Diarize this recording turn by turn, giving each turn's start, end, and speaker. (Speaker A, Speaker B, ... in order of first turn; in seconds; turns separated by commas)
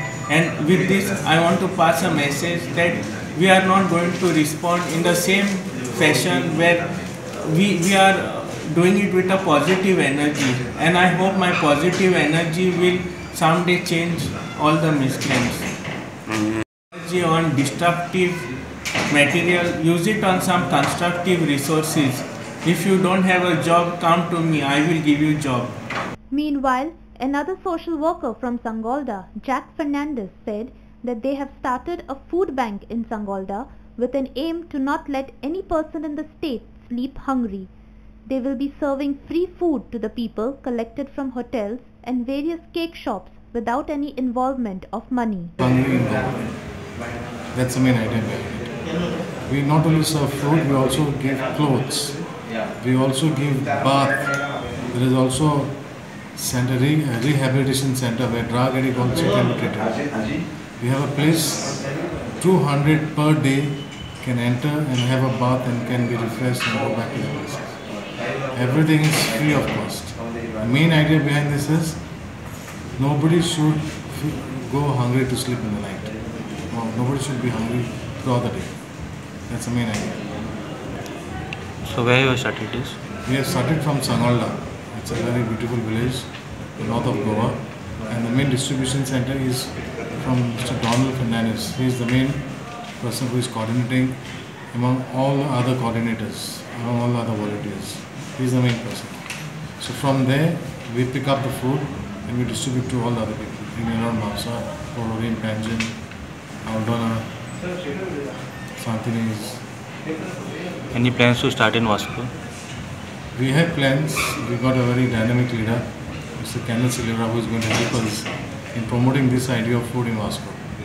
Speaker A: 0.3-15.7, Speaker A: 16.9-18.5, Speaker A: 19.1-25.7, Speaker B: 26.3-37.7, Speaker B: 38.2-45.5, Speaker C: 45.6-46.9, Speaker C: 47.5-72.3, Speaker C: 73.0-80.3, Speaker D: 81.8-83.0, Speaker C: 83.2-107.3, Speaker C: 108.8-109.6, Speaker D: 110.9-112.3, Speaker C: 113.3-120.7